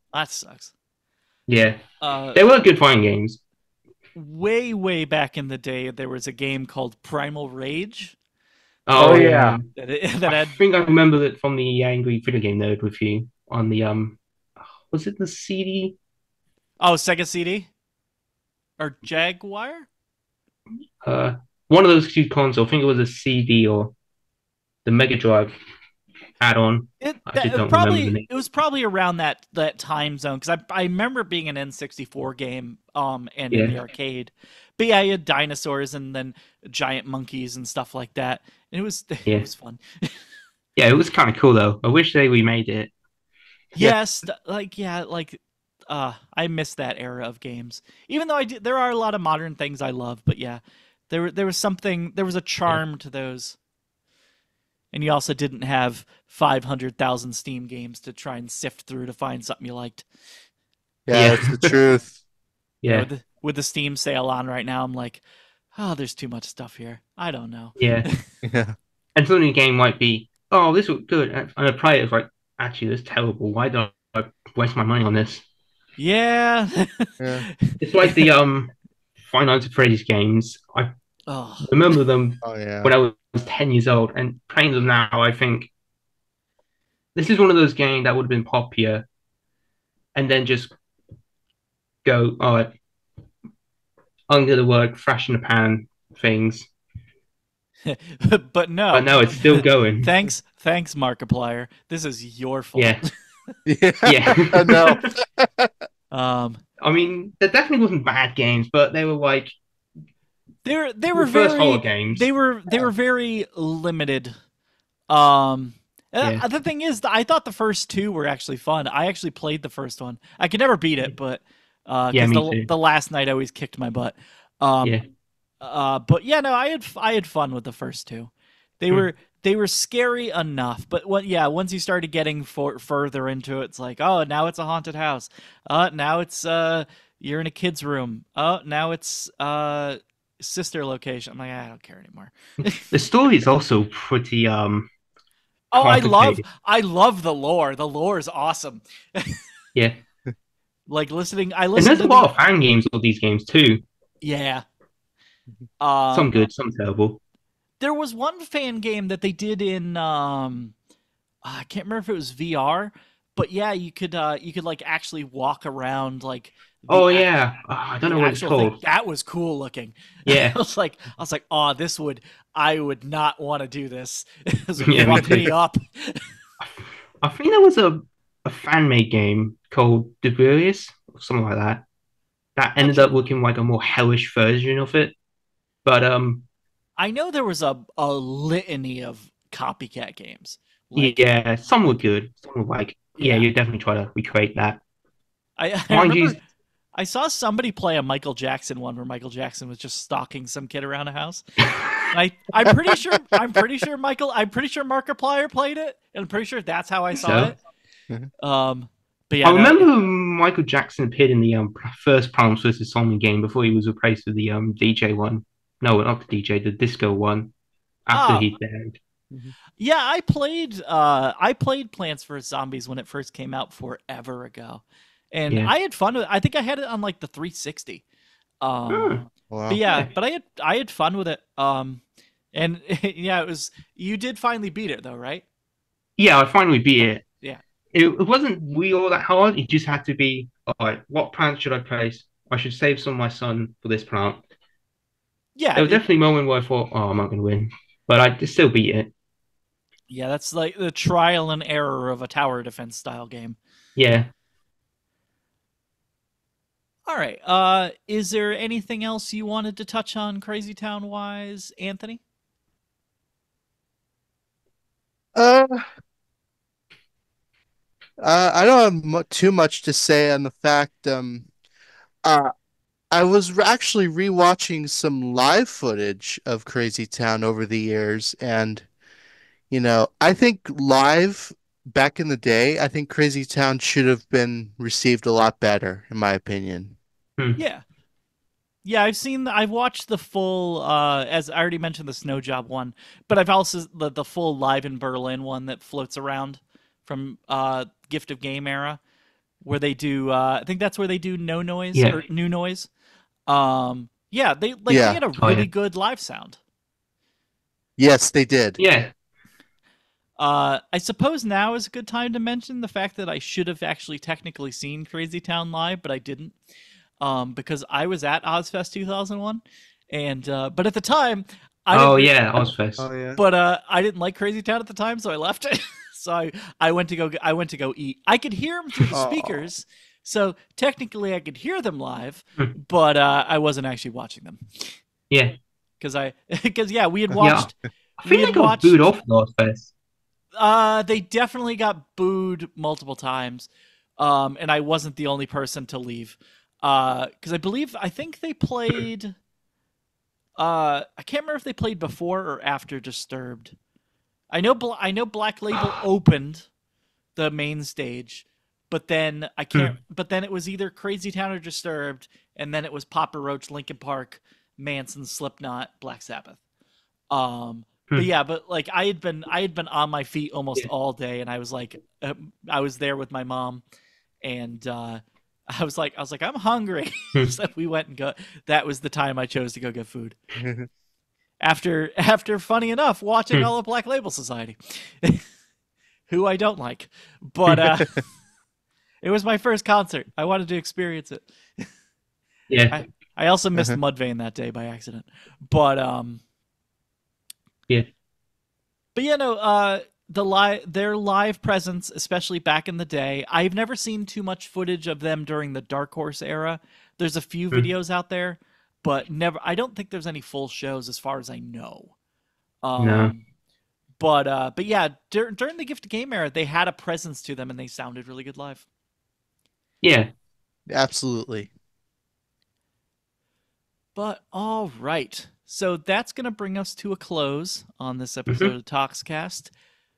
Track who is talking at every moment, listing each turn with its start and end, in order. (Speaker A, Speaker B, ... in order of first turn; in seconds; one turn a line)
Speaker A: 0.1-0.7
Speaker B: 1.5-1.8
Speaker A: 2.0-2.4
Speaker B: 2.4-3.4
Speaker A: 4.2-8.2
Speaker B: 8.9-9.7
Speaker C: 9.0-9.6
Speaker A: 9.8-10.6
Speaker B: 10.3-14.2
Speaker B: 14.9-16.0
Speaker A: 16.8-17.7
Speaker A: 18.8-19.9
Speaker B: 21.0-24.0
Speaker B: 24.9-25.5
Speaker B: 26.4-28.3
Speaker A: 27.0-40.3
Speaker B: 33.5-33.8
Speaker B: 40.8-42.9
Speaker A: 43.8-53.6
Speaker A: 54.9-60.1
Speaker C: 61.1-62.2
Speaker B: 61.1-61.8
Speaker B: 62.8-63.1
Speaker A: 62.9-65.2
Speaker A: 65.8-68.2
Speaker B: 67.8-68.1
Speaker C: 68.4-68.8
Speaker B: 69.2-75.4
Speaker A: 76.0-78.3
Speaker C: 77.2-77.5
Speaker B: 77.8-80.9
Speaker A: 81.3-81.7
Speaker B: 81.6-85.7
Speaker C: 82.4-82.9
Speaker B: 87.2-89.1
Speaker B: 90.2-90.8
Speaker B: 92.0-92.7
Speaker B: 94.3-96.7
Speaker A: 97.8-103.5
Speaker B: 98.9-100.1
Speaker B: 102.8-103.0
Speaker C: 103.7-105.7
Speaker B: 104.0-105.1
Speaker A: 106.1-106.6
Speaker B: 106.8-109.6
Speaker A: 110.7-114.3
Speaker B: 111.1-112.3
Speaker A: 115.1-125.0
Speaker B: 116.2-116.5
Speaker B: 122.1-122.7
Speaker A: 125.6-142.9
Speaker B: 142.8-144.9
Speaker A: 145.7-149.4
Speaker B: 145.8-146.4
Speaker A: 150.9-152.3
Speaker B: 151.8-153.8
Speaker A: 154.2-154.6
Speaker A: 155.8-156.3
Speaker B: 156.1-157.2
Speaker A: 157.8-160.8
Speaker A: 161.4-167.3
Speaker B: 166.9-168.8
Speaker A: 168.1-176.3
Speaker B: 170.3-170.6
Speaker B: 174.9-175.4
Speaker C: 175.0-175.5
Speaker B: 176.6-181.8
Speaker B: 182.6-185.2
Speaker A: 182.8-183.1
Speaker B: 185.8-186.5
Speaker A: 187.0-191.2
Speaker B: 191.0-194.8
Speaker A: 193.2-193.5
Speaker A: 195.6-196.4
Speaker B: 195.9-196.4
Speaker A: 197.0-201.4
Speaker B: 201.7-202.1
Speaker A: 202.1-207.6
Speaker B: 207.2-207.6
Speaker A: 208.4-209.9
Speaker B: 209.4-217.5
Speaker B: 218.1-219.0
Speaker A: 218.1-218.5
Speaker A: 219.8-228.0
Speaker B: 225.5-225.7
Speaker A: 228.6-232.0
Speaker B: 228.9-229.2
Speaker C: 229.5-229.8
Speaker A: 232.5-235.4
Speaker B: 236.2-237.2
Speaker B: 237.9-244.4
Speaker A: 245.6-246.1
Speaker B: 245.8-249.1
Speaker A: 250.1-253.6
Speaker B: 254.0-254.3
Speaker A: 257.1-262.2
Speaker C: 265.4-265.9
Speaker C: 268.2-271.5
Speaker C: 272.2-272.5
Speaker C: 273.1-278.9
Speaker C: 279.7-287.0
Speaker A: 287.6-287.8
Speaker A: 288.9-299.0
Speaker A: 299.6-302.9
Speaker B: 301.9-302.2
Speaker A: 303.5-306.6
Speaker C: 304.9-305.2
Speaker B: 305.4-305.7
Speaker C: 308.0-308.8
Speaker B: 308.8-309.1
Speaker A: 310.4-316.6
Speaker A: 317.2-322.4
Speaker B: 321.9-323.1
Speaker C: 323.0-323.4
Speaker A: 323.4-335.0
Speaker C: 329.1-329.6
Speaker B: 335.3-335.6
Speaker A: 336.0-339.0
Speaker B: 337.4-339.9
Speaker A: 340.6-349.4
Speaker A: 350.6-353.8
Speaker A: 354.5-356.7
Speaker A: 357.4-366.6
Speaker A: 367.3-373.8
Speaker A: 374.4-380.4
Speaker C: 380.6-380.9
Speaker A: 381.6-385.4
Speaker A: 386.3-388.2
Speaker A: 389.2-391.9
Speaker B: 392.7-393.0
Speaker A: 392.9-396.4
Speaker A: 399.1-412.1
Speaker A: 412.8-413.4
Speaker B: 413.0-413.3
Speaker A: 414.2-418.9
Speaker B: 420.0-420.3
Speaker C: 420.9-421.7
Speaker A: 424.2-429.7